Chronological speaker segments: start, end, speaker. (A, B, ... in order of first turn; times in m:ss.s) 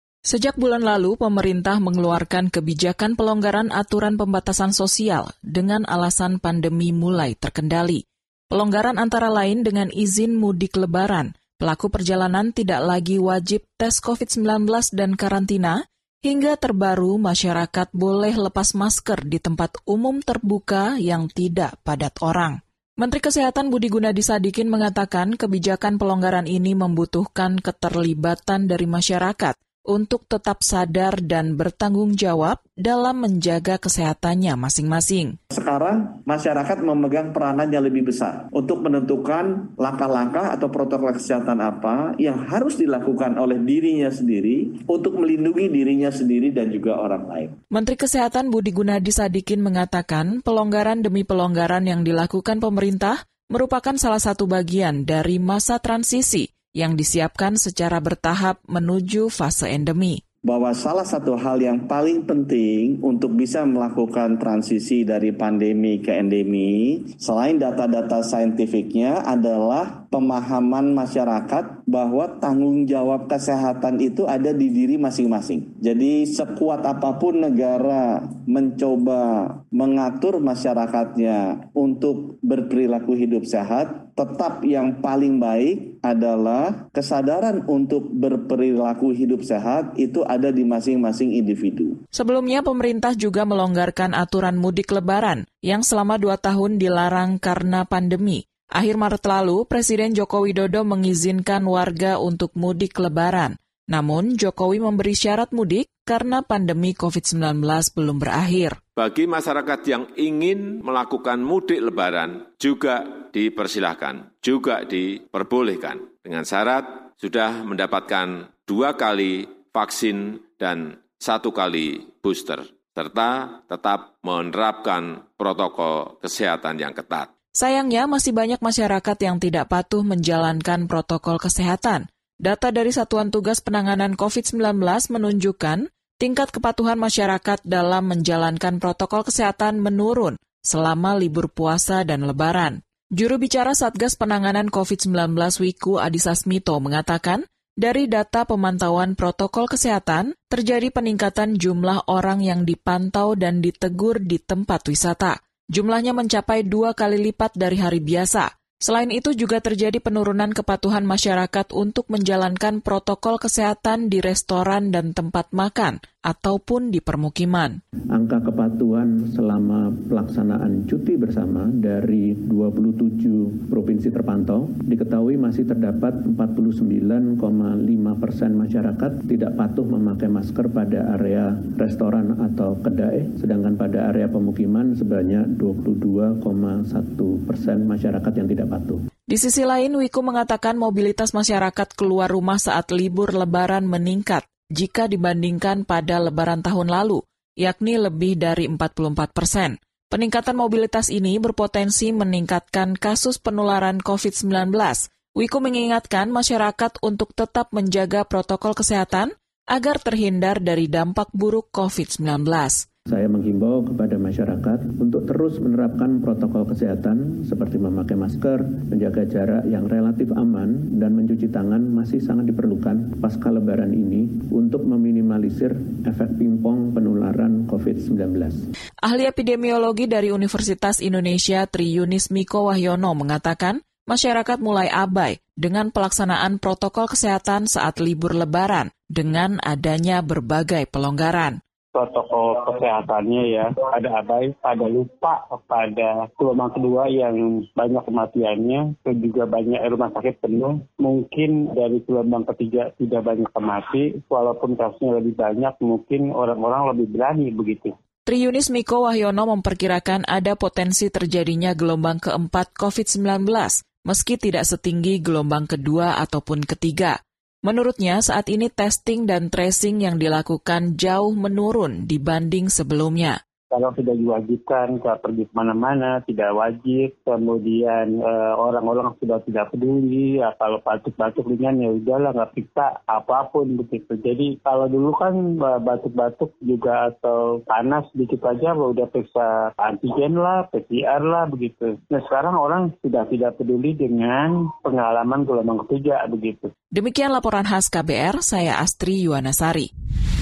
0:00.2-0:35.4 A
0:35.5-0:47.6 B
0:47.7-1:00.2 A
1:00.4-1:32.0 B
1:32.1-1:48.8 A
1:49.0-2:07.3 C
2:07.5-2:47.8 A
2:48.1-3:09.0 D
3:09.3-3:32.8 A
3:33.1-3:48.6 D
3:49.0-4:01.6 A
4:01.9-4:17.9 E
4:18.2-4:33.4 A
4:33.7-4:56.7 E
4:56.9-4:59.9 A